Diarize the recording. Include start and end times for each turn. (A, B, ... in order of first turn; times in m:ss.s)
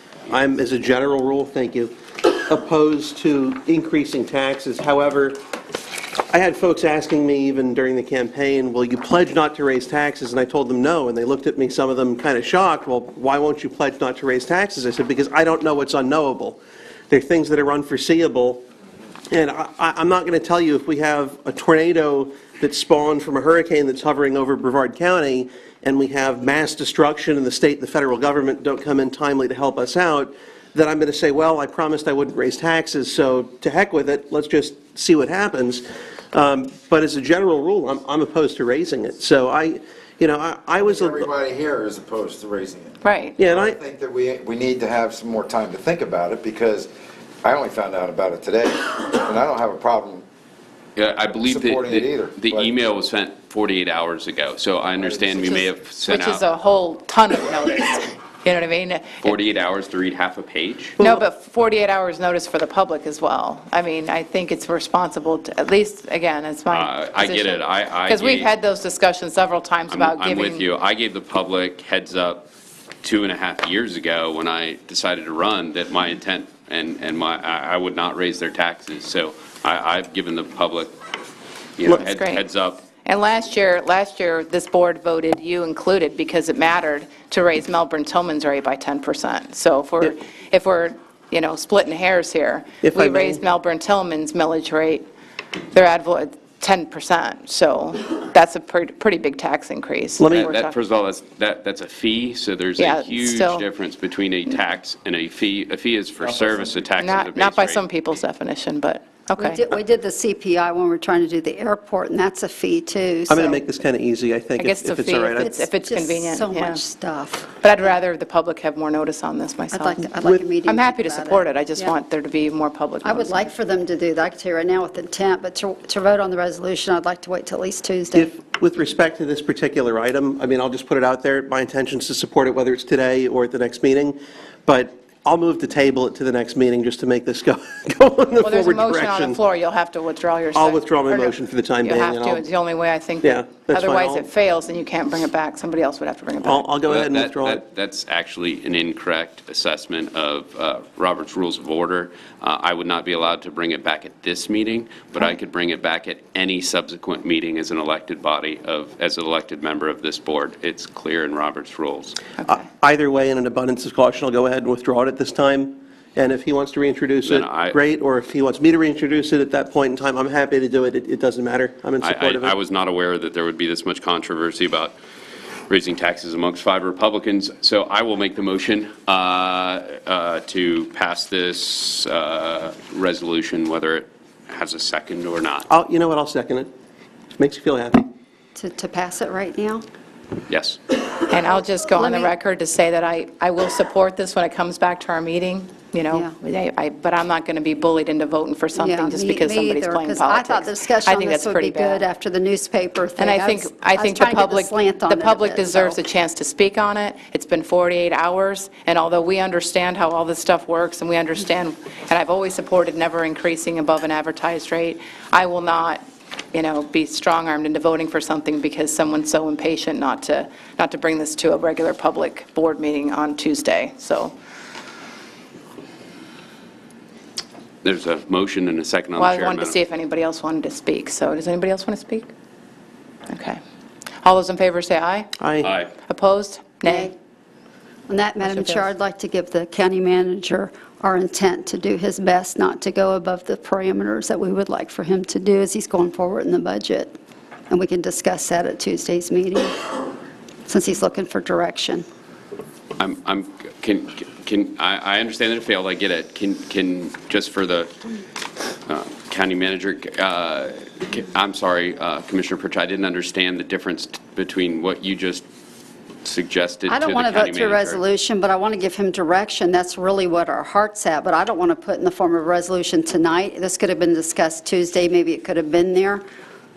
0:00.3-0:05.4 A
0:06.3-0:16.6 A
0:17.1-0:18.6 A
0:19.3-0:41.3 A
0:40.8-0:46.9 B
0:43.0-0:43.4 C
0:43.4-0:43.8 A
0:47.4-0:50.2 B
0:51.0-0:56.4 D
0:51.3-0:52.7 B
0:55.0-0:55.7 B
0:55.4-0:59.4 C
0:59.2-1:01.0 D
1:01.0-1:10.6 C
1:06.7-1:08.5 D
1:09.9-1:12.5 D
1:13.0-1:21.0 D
1:21.8-1:22.8 D
1:21.9-1:22.4 C
1:23.0-1:35.1 C
1:32.8-1:33.4 A
1:35.7-1:40.8 C
1:40.2-1:40.5 A
1:40.3-1:47.8 D
1:42.8-1:43.6 C
1:46.2-1:46.8 B
1:47.0-1:49.6 C
1:49.4-1:53.6 E
1:53.3-1:55.5 A
1:54.6-1:56.8 C
1:55.4-1:57.5 E
1:57.6-2:00.1 C
1:59.7-2:01.9 E
2:00.6-2:03.4 C
2:03.0-2:08.3 E
2:08.1-2:19.4 A
2:18.4-2:26.7 C
2:20.5-2:22.5 A
2:23.2-2:24.3 A
2:26.4-2:27.6 A
2:26.9-2:42.2 D
2:42.4-2:52.5 A
2:47.2-2:47.8 D
2:52.0-2:55.0 D
2:55.7-3:05.6 D
3:05.7-3:06.7 A
3:07.4-3:08.1 A
3:08.5-3:09.8 E
3:10.5-3:10.8 D
3:11.3-3:22.0 C
3:11.4-3:12.3 E
3:18.7-3:26.0 E
3:23.2-3:44.3 C
3:47.8-3:49.7 D
3:49.2-3:52.3 C
3:53.3-3:53.6 C
3:54.2-3:55.3 C
3:55.4-3:55.7 A
3:55.6-3:55.9 D
3:56.0-3:57.1 C
3:56.8-3:57.1 E
3:58.1-4:07.1 E
3:58.4-3:58.9 C
4:07.7-4:09.7 E
4:10.6-4:12.0 E
4:13.0-4:17.9 D
4:18.8-4:25.4 D
4:26.2-4:28.0 D
4:26.9-4:36.2 E